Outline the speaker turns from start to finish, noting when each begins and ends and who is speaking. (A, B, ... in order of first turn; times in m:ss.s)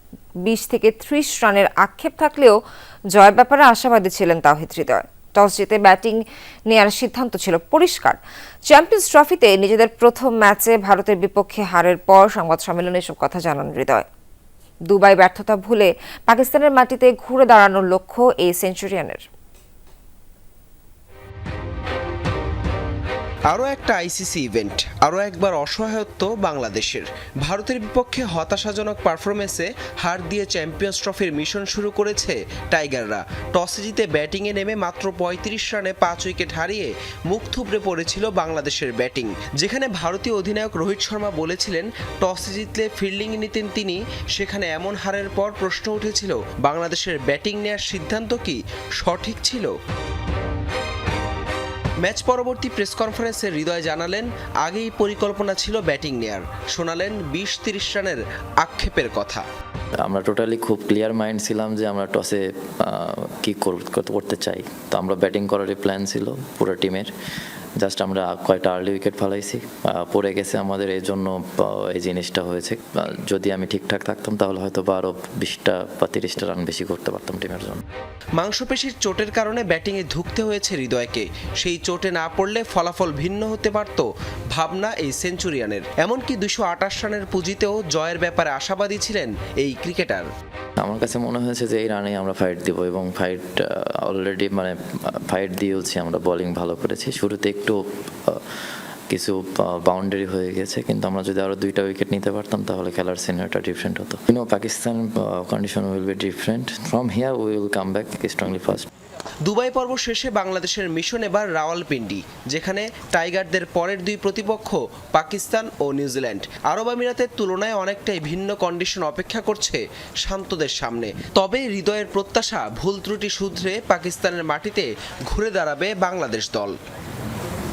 0:00.4-0:02.6 A
0:03.1-0:14.0 A
0:14.9-0:19.2 A
0:23.5-0:49.7 B
0:52.0-0:59.4 B
1:00.0-1:07.1 C
1:07.8-1:17.8 C
1:18.4-1:30.2 B
1:30.8-1:38.4 C
1:39.1-1:48.9 C
1:49.4-2:06.8 B